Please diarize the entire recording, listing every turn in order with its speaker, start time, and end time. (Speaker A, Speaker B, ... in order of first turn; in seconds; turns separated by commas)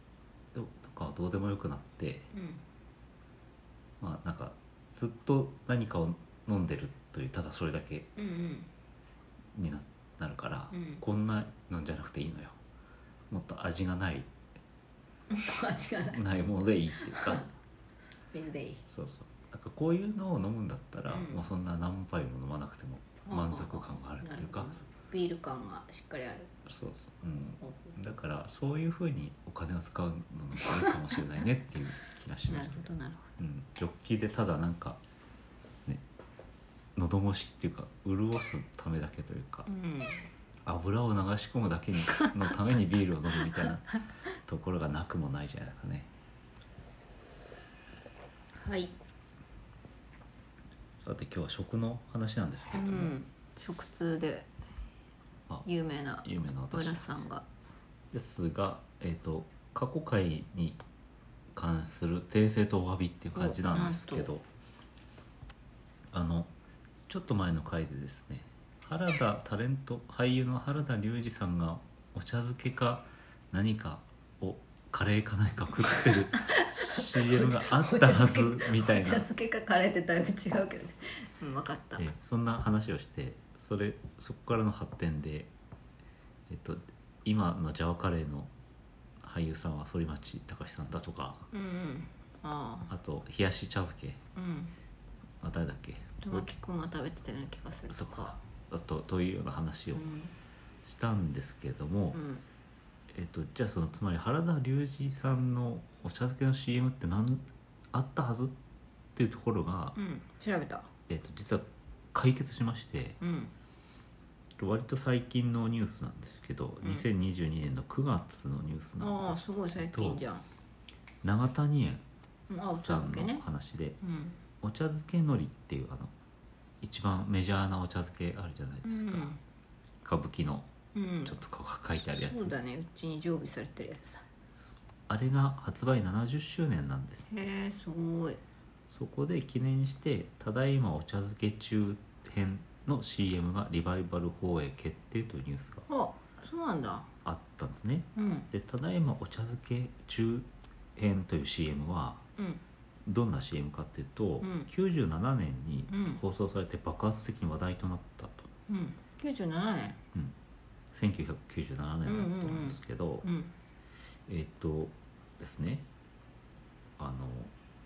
Speaker A: 0.5-2.3, Speaker B: 2.3-2.6, Speaker A: 4.0-8.1, Speaker B: 8.2-8.7, Speaker A: 9.5-12.6, Speaker B: 10.7-11.0, Speaker A: 13.3-14.3, Speaker B: 15.3-16.2, Speaker A: 16.1-17.5, Speaker B: 17.0-17.5, Speaker B: 18.3-18.8, Speaker A: 18.9-24.8, Speaker B: 21.1-21.4, Speaker B: 23.3-26.5, Speaker A: 26.7-35.0, Speaker B: 27.6-28.0, Speaker B: 30.6-31.1, Speaker B: 32.5-33.3, Speaker A: 37.0-39.7, Speaker B: 39.7-40.3, Speaker A: 40.6-43.9, Speaker B: 42.1-42.4, Speaker B: 43.4-43.7, Speaker A: 44.5-46.1, Speaker B: 48.5-49.0, Speaker A: 51.0-53.1, Speaker B: 52.7-54.5, Speaker B: 55.6-57.5, Speaker A: 56.2-57.0, Speaker A: 58.1-60.8, Speaker A: 61.5-64.5, Speaker B: 63.4-64.3, Speaker A: 66.1-66.5, Speaker A: 67.1-79.3, Speaker B: 75.9-82.1, Speaker A: 82.0-85.5, Speaker A: 86.5-88.5, Speaker A: 89.2-91.5, Speaker B: 91.5-92.9, Speaker A: 92.9-94.2, Speaker B: 94.4-94.7, Speaker A: 95.4-96.5, Speaker B: 96.2-98.4, Speaker A: 97.9-100.0, Speaker B: 100.0-100.3, Speaker A: 100.8-102.2, Speaker B: 102.1-102.4, Speaker A: 103.1-108.5, Speaker A: 109.2-110.0, Speaker B: 110.0-110.9, Speaker A: 111.1-113.2, Speaker B: 113.2-113.5, Speaker A: 114.6-120.2, Speaker B: 119.0-120.5, Speaker A: 121.2-122.0, Speaker B: 122.5-123.5, Speaker A: 122.8-124.0, Speaker B: 124.0-124.4, Speaker A: 124.6-126.1, Speaker A: 126.8-129.4, Speaker B: 128.8-129.4, Speaker A: 130.0-130.7, Speaker B: 130.9-131.4, Speaker A: 131.2-132.5, Speaker B: 132.1-134.2, Speaker A: 135.1-137.3, Speaker B: 137.3-138.4, Speaker A: 138.9-145.9, Speaker B: 145.9-147.1, Speaker A: 147.2-152.2, Speaker B: 148.2-148.5, Speaker B: 152.4-152.6, Speaker A: 153.1-158.5, Speaker B: 154.4-154.7, Speaker B: 155.9-156.2, Speaker B: 158.7-160.0, Speaker A: 160.9-163.3, Speaker B: 162.1-163.5, Speaker A: 164.3-165.9, Speaker A: 167.0-167.5